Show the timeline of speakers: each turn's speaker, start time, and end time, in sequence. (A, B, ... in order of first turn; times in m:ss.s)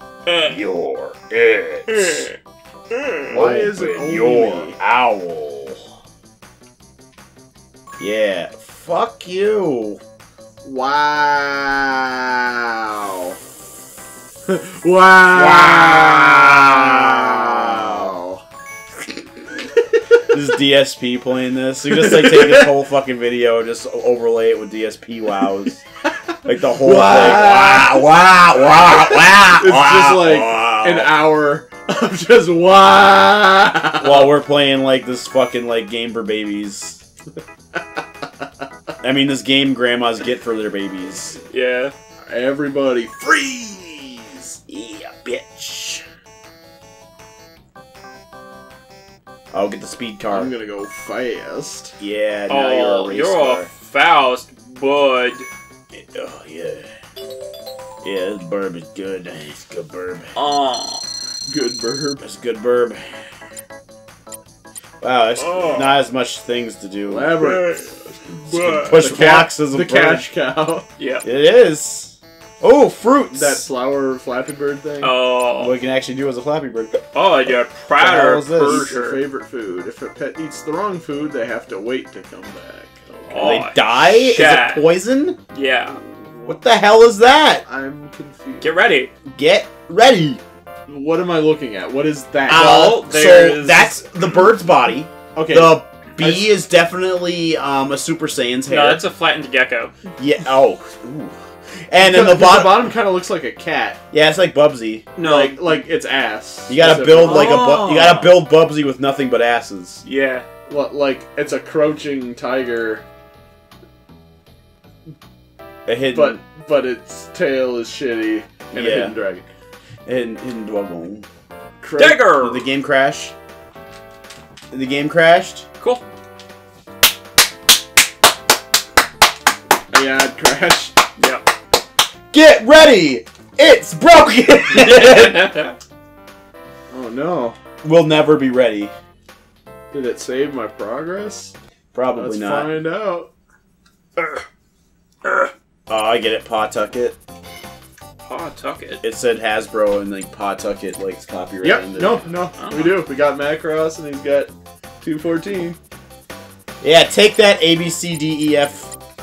0:00.2-0:00.6 A
0:00.4-0:02.3 B
0:01.9-0:02.3 A
0:02.9-0:03.4 A
0:03.3-0:05.9 B
0:03.3-0:04.8 C
0:08.0-0:10.0 B
0:10.6-0:13.4 C
0:14.4-0:18.4 C
0:15.3-0:18.1 B
0:20.0-0:20.3 C
0:20.3-0:25.8 B
0:21.9-0:22.7 C
0:26.4-0:31.1 B
0:26.6-0:34.3 C
0:34.0-0:37.0 B
0:39.0-0:41.4 B
0:41.5-0:41.9 A
0:42.2-0:44.6 C
0:44.7-0:46.0 B
0:49.5-0:50.5 B
0:50.3-0:52.0 C
0:52.0-0:53.7 B
0:52.5-0:55.5 A
0:55.9-0:56.9 B
0:58.0-1:00.3 B
1:00.3-1:01.0 A
1:01.5-1:02.2 C
1:02.2-1:03.3 B
1:05.0-1:07.8 B
1:05.4-1:06.0 A
1:07.0-1:08.1 C
1:08.3-1:09.0 A
1:08.5-1:10.3 B
1:08.7-1:10.8 C
1:11.0-1:11.2 A
1:11.2-1:13.7 B
1:13.3-1:15.2 C
1:15.0-1:15.8 A
1:15.6-1:18.9 B
1:17.1-1:19.2 A
1:18.6-1:23.6 C
1:23.3-1:24.9 A
1:23.3-1:25.4 B
1:25.5-1:26.0 A
1:26.2-1:26.6 C
1:26.4-1:27.6 B
1:27.6-1:28.7 C
1:28.6-1:29.1 A
1:29.3-1:30.4 B
1:30.9-1:33.0 C
1:32.5-1:39.0 B
1:32.5-1:34.0 A
1:35.3-1:36.5 C
1:38.7-1:39.9 A
1:40.2-1:42.9 B
1:42.0-1:44.0 C
1:44.1-1:45.1 B
1:45.2-1:45.6 A
1:45.2-1:47.8 C
1:46.7-1:50.0 B
1:47.2-1:48.3 A
1:50.0-1:50.5 A
1:50.7-1:53.0 C
1:55.8-1:56.4 B
1:56.1-1:59.5 C
1:58.7-1:59.2 B
2:00.0-2:01.2 B
2:01.8-2:02.4 C
2:02.0-2:02.6 A
2:02.3-2:03.3 B
2:04.7-2:05.6 B
2:09.9-2:11.0 C
2:11.2-2:11.4 A
2:12.3-2:15.6 B
2:14.7-2:15.8 A
2:16.9-2:17.6 C
2:17.8-2:18.9 B
2:19.9-2:21.5 C
2:21.9-2:22.7 B
2:22.1-2:23.3 C
2:25.2-2:25.5 A
2:25.9-2:27.2 B
2:28.2-2:29.0 A
2:29.0-2:32.3 B
2:31.6-2:35.8 C
2:32.6-2:33.0 A
2:36.8-2:38.9 B